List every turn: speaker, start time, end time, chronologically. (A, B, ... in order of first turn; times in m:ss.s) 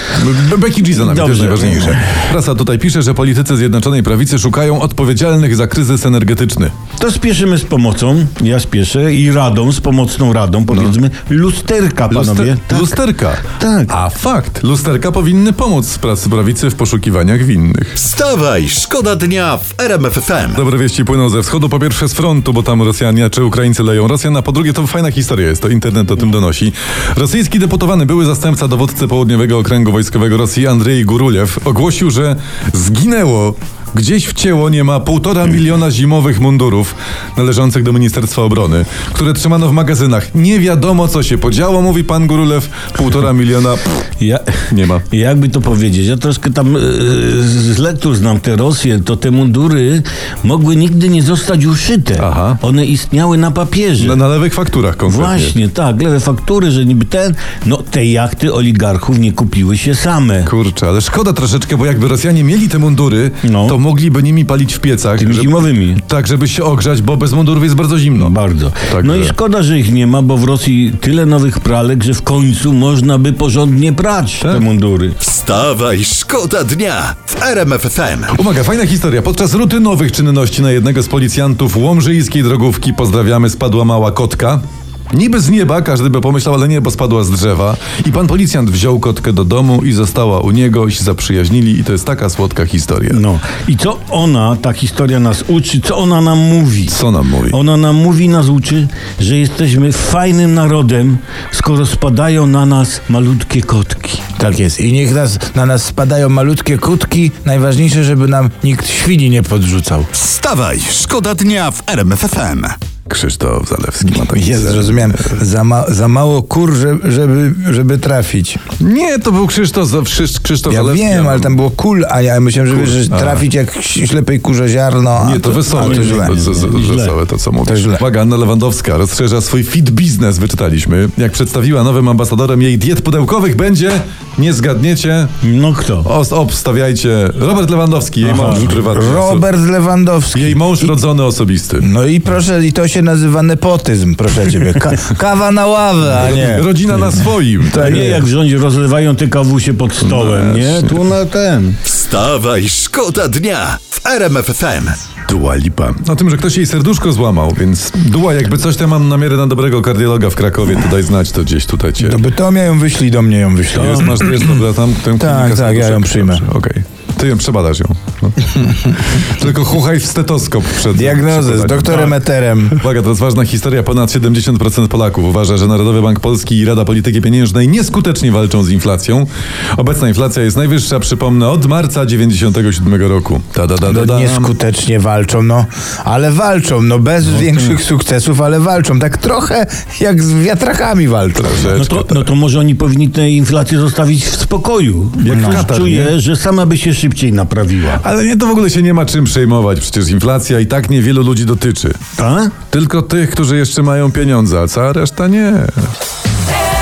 0:00.1-0:06.7 A
0:00.9-0:02.2 B
0:07.0-0:13.0 B
0:12.1-0:18.0 A
0:13.5-0:14.0 B
0:18.0-0:20.6 C
0:20.6-0:43.8 A
0:44.2-0:54.2 B
0:44.7-0:45.1 A
0:52.2-0:52.6 A
0:54.0-0:55.6 A
0:55.1-1:00.5 B
1:00.5-1:08.4 A
1:03.4-1:03.8 B
1:05.2-1:06.0 B
1:08.2-1:15.2 B
1:08.9-1:09.4 A
1:15.2-1:18.4 C
1:18.3-1:33.2 A
1:33.1-1:37.0 B
1:36.9-1:37.6 A
1:37.5-1:44.2 B
1:44.4-1:50.1 D
1:50.1-1:52.8 C
1:53.1-1:55.3 A
1:54.2-1:58.6 D
1:58.8-2:01.6 A
2:00.7-2:06.3 D
2:02.7-2:03.4 A
2:05.2-2:15.3 A
2:05.7-2:07.2 B
2:07.7-2:08.0 D
2:15.4-2:16.1 B
2:16.0-2:19.4 A
2:18.2-2:18.8 B
2:18.8-2:20.9 D
2:20.3-2:21.9 A
2:21.8-2:26.7 D
2:26.1-2:28.2 A
2:27.7-2:28.2 D
2:27.7-2:31.8 B
2:30.0-2:31.0 A
2:31.8-2:35.1 C
2:35.3-2:42.2 A
2:42.0-2:44.6 D
2:43.8-2:52.2 A
2:43.8-2:44.2 B
2:45.2-2:46.5 D
2:50.9-2:52.8 D
2:52.7-3:04.5 A
3:03.9-3:11.8 D
3:11.4-3:12.3 A
3:11.7-3:18.0 B
3:15.2-3:16.2 A
3:15.3-3:15.6 D
3:18.0-3:22.0 A
3:22.2-3:22.6 B
3:22.7-3:25.9 A